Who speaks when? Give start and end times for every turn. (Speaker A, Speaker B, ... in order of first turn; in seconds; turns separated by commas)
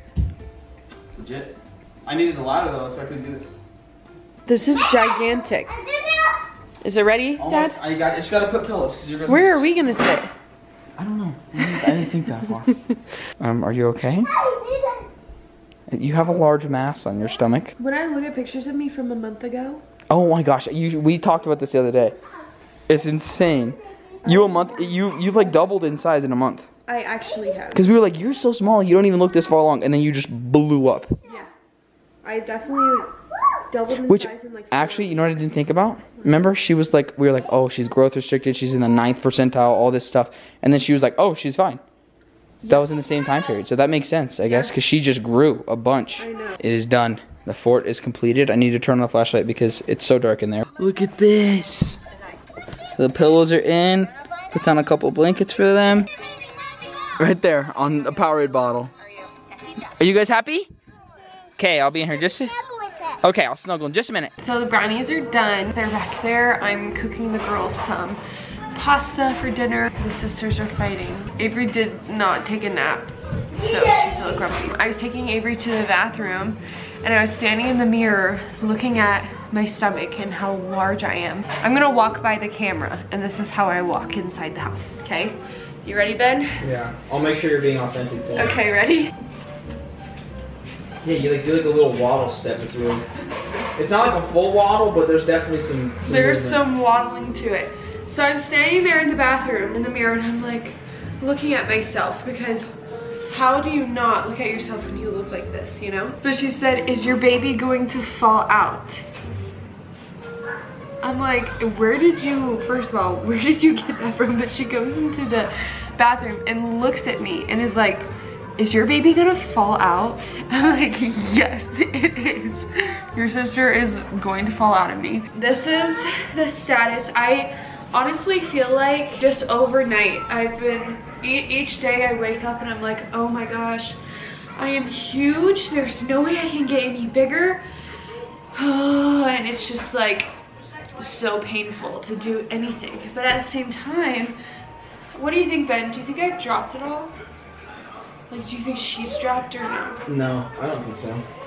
Speaker A: 1.1-1.5, Speaker A: 2.0-3.5, Speaker B: 4.5-5.7, Speaker C: 4.7-6.4, Speaker B: 6.8-7.8, Speaker A: 7.4-9.6, Speaker B: 9.3-10.3, Speaker A: 11.0-12.7, Speaker A: 13.4-14.3, Speaker C: 14.2-15.1, Speaker A: 15.9-17.7, Speaker B: 17.8-19.8, Speaker A: 20.1-22.1, Speaker A: 22.9-26.6, Speaker C: 23.7-24.2, Speaker B: 24.2-24.7, Speaker B: 26.9-27.9, Speaker A: 27.7-31.2, Speaker B: 32.2-33.1, Speaker B: 33.7-35.6, Speaker A: 34.0-41.8, Speaker A: 42.7-52.0, Speaker B: 44.5-44.7, Speaker B: 46.2-46.6, Speaker A: 53.0-56.1, Speaker A: 57.2-58.9, Speaker A: 60.0-60.7, Speaker A: 61.6-62.5, Speaker C: 62.4-63.2, Speaker A: 63.2-64.3, Speaker B: 64.4-68.2, Speaker B: 68.7-73.1, Speaker C: 73.6-74.4, Speaker B: 73.6-86.6, Speaker A: 86.6-88.5, Speaker B: 88.3-89.1, Speaker A: 91.0-93.0, Speaker A: 93.7-96.6, Speaker B: 96.0-102.7, Speaker B: 103.3-109.0, Speaker B: 111.0-134.0, Speaker B: 134.6-137.6, Speaker B: 138.5-140.3, Speaker B: 141.0-144.4, Speaker B: 145.1-147.1, Speaker B: 148.3-150.0, Speaker A: 150.1-151.2